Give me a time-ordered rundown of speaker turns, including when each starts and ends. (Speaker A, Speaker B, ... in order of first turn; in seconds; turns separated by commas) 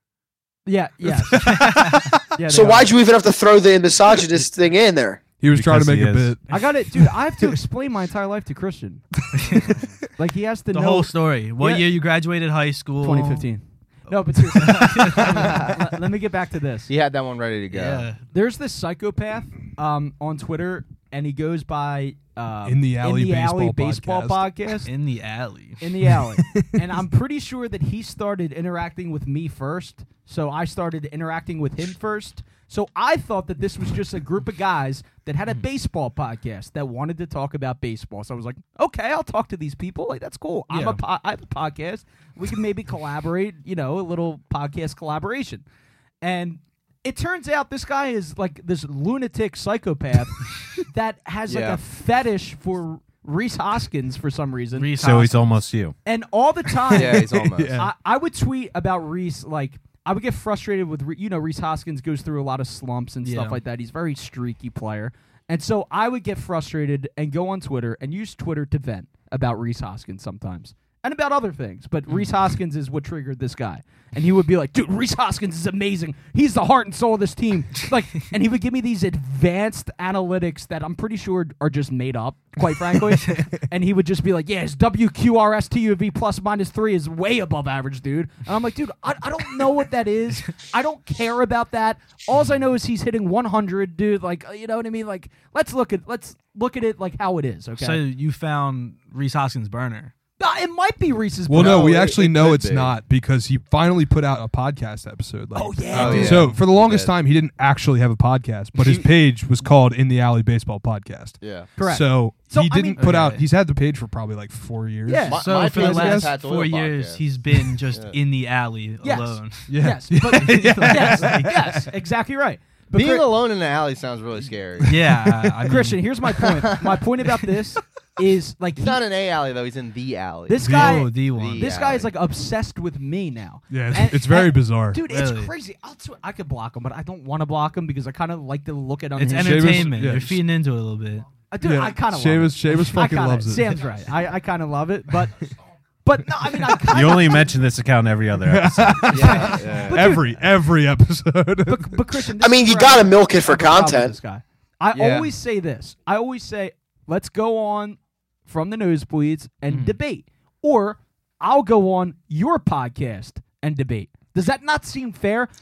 Speaker A: 0.7-2.9, Speaker B: 1.4-2.1, Speaker C: 2.5-5.2, Speaker D: 5.4-7.5, Speaker E: 5.5-6.3, Speaker A: 6.5-9.1, Speaker B: 9.3-9.8, Speaker A: 10.2-11.9, Speaker B: 10.7-13.5, Speaker A: 13.0-16.9, Speaker B: 14.5-15.6, Speaker F: 15.3-15.7, Speaker F: 16.9-18.1, Speaker B: 17.7-18.2, Speaker A: 18.3-24.9, Speaker D: 22.6-24.5, Speaker B: 24.9-25.8, Speaker A: 25.8-45.6, Speaker D: 26.1-26.8, Speaker B: 40.7-41.0, Speaker A: 46.2-55.1, Speaker F: 51.5-51.8, Speaker B: 54.8-55.5, Speaker E: 55.0-56.0, Speaker A: 56.0-98.0, Speaker F: 56.9-57.8, Speaker D: 57.0-57.9, Speaker B: 63.2-63.6, Speaker B: 97.8-100.1, Speaker A: 100.4-101.9, Speaker D: 101.5-116.3, Speaker F: 101.5-103.0, Speaker A: 105.5-106.5, Speaker F: 105.9-107.1, Speaker F: 111.4-111.7, Speaker A: 111.8-113.3, Speaker B: 113.0-113.4, Speaker A: 115.1-116.2, Speaker F: 115.3-117.2, Speaker B: 115.3-119.7, Speaker F: 117.9-118.2, Speaker A: 119.0-123.3, Speaker D: 119.7-121.8, Speaker B: 120.3-121.8, Speaker F: 123.0-124.9, Speaker B: 124.8-126.0, Speaker D: 124.9-125.5, Speaker A: 125.7-129.0, Speaker F: 126.4-127.0, Speaker F: 128.8-132.1, Speaker A: 130.5-140.0, Speaker D: 130.6-131.1, Speaker B: 130.7-131.6, Speaker D: 133.7-135.0, Speaker B: 135.1-135.5, Speaker B: 139.2-141.3, Speaker D: 139.3-140.4, Speaker A: 141.5-145.4, Speaker D: 141.6-143.8, Speaker A: 146.0-147.5, Speaker E: 146.9-149.2, Speaker D: 148.4-152.0, Speaker F: 149.1-150.2, Speaker A: 149.1-150.3, Speaker A: 151.7-165.5, Speaker C: 152.4-154.2, Speaker F: 154.9-155.3, Speaker B: 159.7-160.0